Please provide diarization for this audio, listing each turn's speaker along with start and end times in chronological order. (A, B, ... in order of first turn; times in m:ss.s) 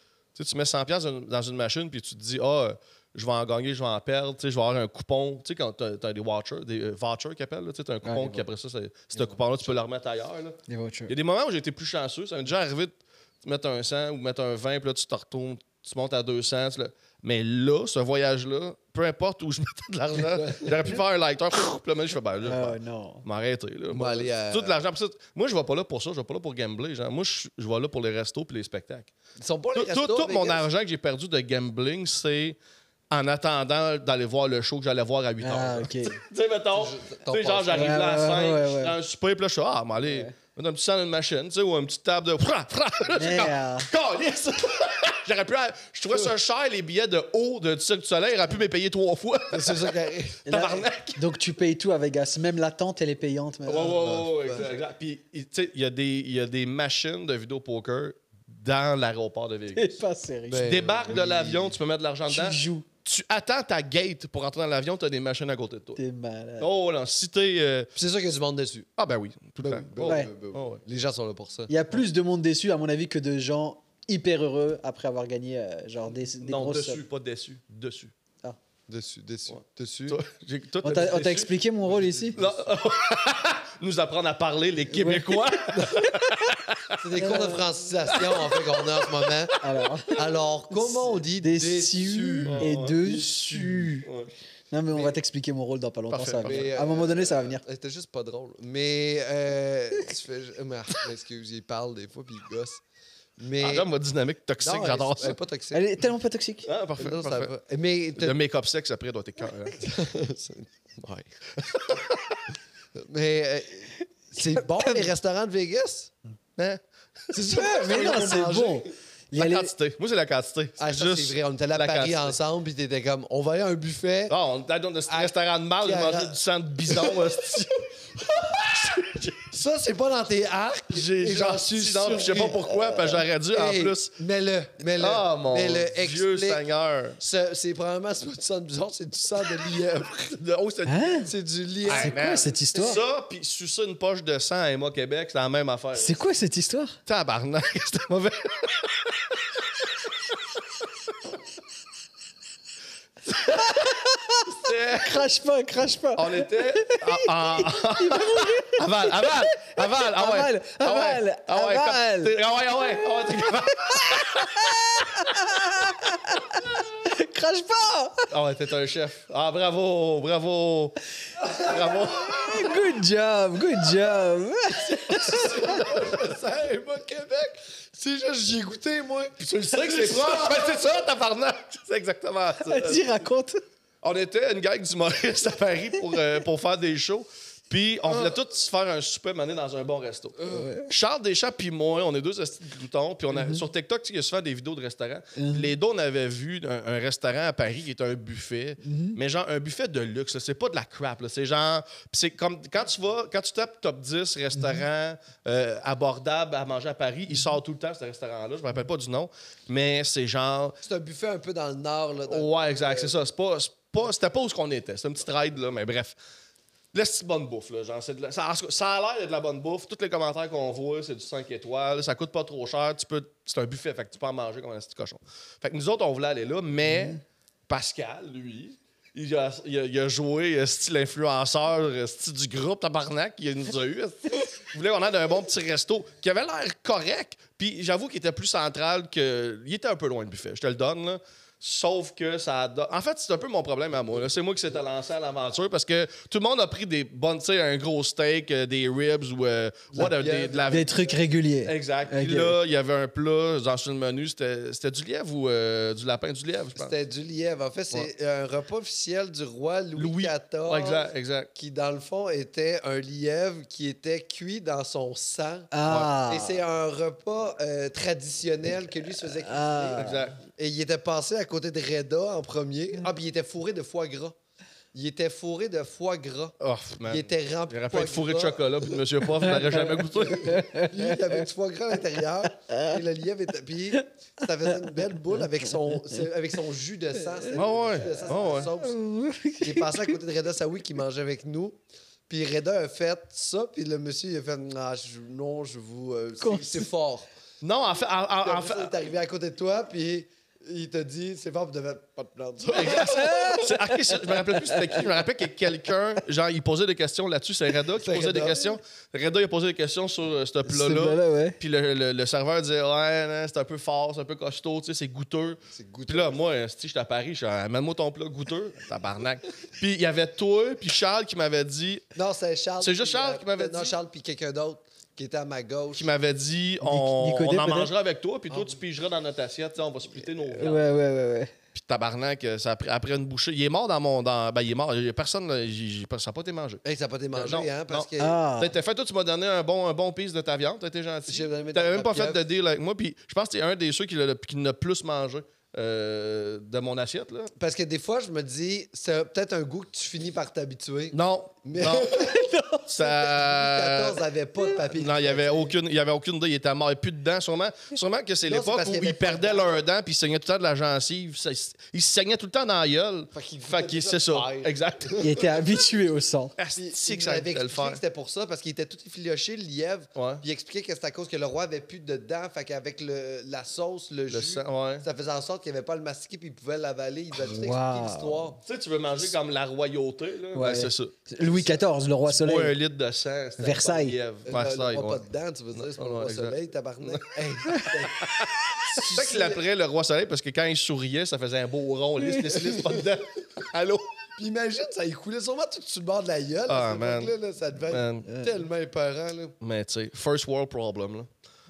0:00.3-0:10.6 A
0:08.0-0:08.4 B
0:10.7-0:11.1 B
0:11.1-0:29.1 A
0:20.3-0:20.9 C
0:22.4-0:23.2 B
0:23.9-0:24.8 C
0:29.4-0:30.7 C
0:29.7-0:32.6 A
0:33.1-0:49.9 A
0:35.4-0:36.2 B
0:36.7-0:38.0 C
0:37.7-0:39.0 B
0:40.0-0:40.3 B
0:43.1-0:43.9 B
0:49.5-0:50.4 C
0:50.4-0:51.2 A
0:50.5-0:54.2 B
0:53.6-1:00.0 A
0:54.0-0:54.7 C
0:59.7-1:00.7 B
1:00.5-1:01.8 C
1:00.6-1:06.0 A
1:02.3-1:02.8 B
1:06.0-1:06.7 B
1:06.6-1:07.9 A
1:08.0-1:08.9 C
1:09.0-1:10.8 A
1:09.6-1:11.7 C
1:10.0-1:10.3 B
1:11.7-1:17.0 B
1:16.4-1:18.1 A
1:18.9-1:20.2 C
1:19.5-1:21.5 A
1:20.8-1:22.4 B
1:21.8-1:22.6 C
1:22.3-1:27.0 A
1:24.9-1:26.4 B
1:27.0-1:29.5 C
1:27.2-1:27.6 B
1:28.1-1:29.2 A
1:29.6-1:34.1 B
1:30.1-1:32.8 C
1:32.4-1:34.3 A
1:34.7-1:37.6 B
1:34.9-1:35.2 C
1:36.1-1:36.8 A
1:36.4-1:42.8 C
1:43.4-1:43.9 C
1:43.6-1:45.4 A
1:44.6-1:45.8 C
1:45.7-1:46.7 B
1:46.6-1:47.5 A
1:47.0-1:48.4 C
1:48.2-1:49.8 A
1:49.8-1:51.3 C
1:51.6-1:52.4 A
1:52.9-1:56.1 C
1:54.7-1:55.1 B
1:57.3-1:58.9 C
1:57.5-1:59.7 B
1:59.3-2:02.3 A
2:00.8-2:04.4 C
2:04.3-2:09.5 A
2:05.1-2:07.4 C
2:09.5-2:16.6 C
2:10.9-2:14.1 A
2:15.0-2:17.2 A
2:17.2-2:20.4 C
2:20.3-2:21.2 A
2:20.8-2:21.3 B
2:21.2-2:23.0 C
2:21.9-2:26.2 A
2:21.9-2:23.0 B
2:26.0-2:27.0 B
2:27.0-2:29.1 A
2:33.3-2:48.3 B
2:34.4-2:35.2 A
2:36.2-2:45.0 A
2:48.3-2:51.0 A
2:51.5-2:52.7 A
2:52.2-2:55.8 B
2:54.8-3:00.6 C
2:55.3-2:56.2 A
2:59.4-3:03.0 A
3:02.6-3:03.6 B
3:04.0-3:30.8 A
3:08.1-3:08.4 C
3:10.4-3:10.7 C
3:10.5-3:10.9 B
3:13.3-3:13.6 B
3:15.4-3:15.7 B
3:18.8-3:19.2 B
3:24.6-3:24.8 B
3:30.8-3:33.2 C
3:32.3-3:36.2 A
3:36.9-4:10.9 A
3:46.8-3:47.1 B
4:09.9-4:11.2 C
4:10.7-4:12.6 B
4:11.6-4:16.9 A
4:16.8-4:34.4 C
4:20.0-4:21.5 A
4:25.7-4:26.6 B
4:29.4-4:30.2 B
4:29.9-4:30.4 A
4:34.9-4:36.5 C
4:36.6-4:40.7 A
4:37.0-4:49.0 C
4:39.4-4:41.4 B
4:42.7-4:43.0 B
4:43.9-4:44.9 B
4:47.3-4:50.2 B
4:47.5-4:48.7 A
4:49.6-4:57.2 C
4:56.4-4:56.9 B
4:57.6-4:58.9 A
4:58.4-5:03.6 C
5:02.7-5:22.0 A
5:02.9-5:05.0 B
5:08.0-5:08.7 C
5:10.6-5:11.6 B
5:15.7-5:16.4 C
5:22.1-5:26.1 C
5:22.8-5:23.9 A
5:25.9-5:30.8 A
5:26.8-5:27.9 B
5:28.5-5:28.8 C
5:30.4-5:31.5 B
5:31.7-5:36.8 A
5:36.8-5:38.4 C
5:37.3-5:47.5 A
5:38.2-5:38.8 B
5:41.3-5:42.4 C
5:47.6-5:52.4 C
5:51.1-5:52.3 A
5:52.2-5:52.8 B
5:52.8-5:54.2 A
5:53.0-5:55.7 C
5:54.9-6:05.2 A
5:58.4-5:59.8 C
6:03.3-6:05.6 C
6:05.2-6:06.5 B
6:06.6-6:08.0 A
6:06.8-6:18.6 C
6:10.1-6:10.4 A
6:14.3-6:15.0 A
6:17.4-6:18.5 B
6:18.6-6:21.2 A
6:20.5-6:22.8 B
6:21.4-6:21.8 C
6:22.3-6:34.1 A
6:23.6-6:24.2 B
6:24.4-6:28.3 C
6:29.0-6:29.6 C
6:34.4-6:39.6 C
6:36.7-6:37.3 A
6:37.9-6:38.3 A
6:39.6-6:41.3 A